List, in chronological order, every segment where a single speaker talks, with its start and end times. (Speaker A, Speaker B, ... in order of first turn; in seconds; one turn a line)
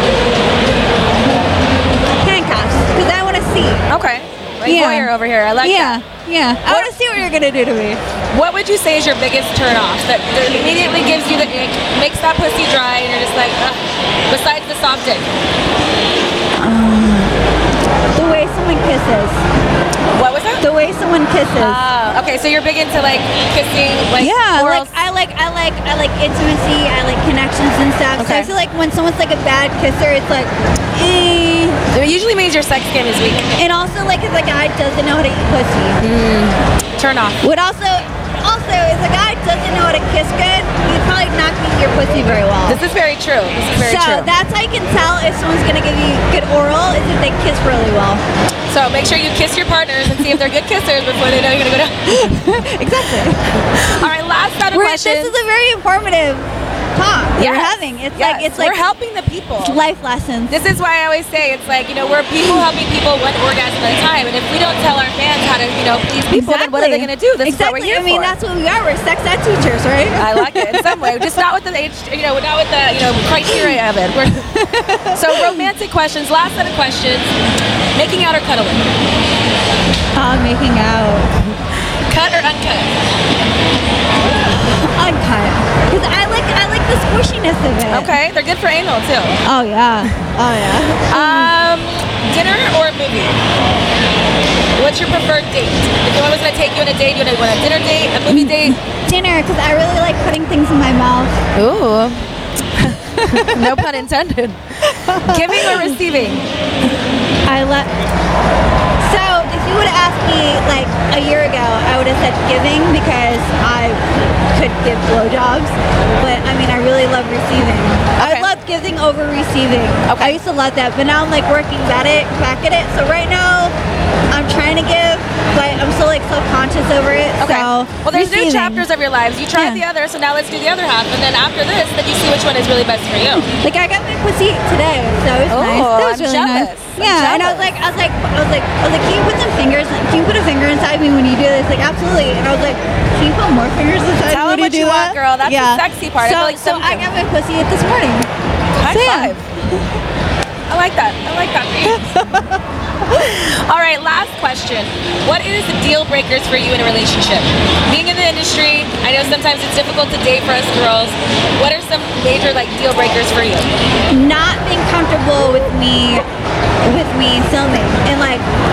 Speaker A: 2.2-3.9
Speaker B: 3.9-6.0
Speaker A: 4.7-8.0
Speaker B: 8.3-15.3
Speaker A: 16.6-17.4
Speaker A: 18.1-19.4
Speaker B: 20.1-20.7
Speaker A: 20.6-21.9
Speaker B: 21.6-24.9
Speaker A: 24.2-31.8
Speaker B: 28.2-28.5
Speaker B: 31.9-33.6
Speaker A: 33.6-36.0
Speaker B: 36.0-37.4
Speaker A: 37.4-42.8
Speaker B: 42.7-44.3
Speaker A: 43.8-48.2
Speaker B: 48.7-52.3
Speaker A: 50.1-50.4
Speaker A: 52.1-54.1
Speaker B: 53.7-55.4
Speaker A: 54.7-58.8
Speaker B: 57.4-59.8
Speaker A: 59.6-60.6
Speaker B: 60.5-68.3
Speaker A: 66.3-71.4
Speaker B: 70.2-74.6
Speaker A: 73.5-73.7
Speaker A: 74.5-75.7
Speaker B: 75.1-77.3
Speaker B: 78.0-78.9
Speaker A: 80.2-81.3
Speaker B: 81.8-83.0
Speaker A: 84.6-88.2
Speaker B: 87.9-89.4
Speaker A: 89.4-91.5
Speaker B: 91.1-93.4
Speaker B: 94.8-98.8
Speaker A: 98.3-101.3
Speaker B: 101.5-102.2
Speaker B: 102.7-106.4
Speaker A: 103.1-104.0
Speaker A: 104.8-106.0
Speaker A: 107.5-107.9
Speaker A: 109.0-123.8
Speaker B: 118.2-118.5
Speaker B: 120.1-120.4
Speaker A: 124.3-128.9
Speaker B: 127.4-133.5
Speaker A: 129.5-129.8
Speaker A: 133.5-148.3
Speaker B: 135.5-137.7
Speaker B: 144.3-147.1
Speaker B: 148.8-149.4
Speaker A: 148.8-149.8
Speaker B: 150.7-152.1
Speaker A: 151.9-153.4
Speaker B: 153.1-163.7
Speaker A: 164.1-166.3
Speaker A: 166.8-168.4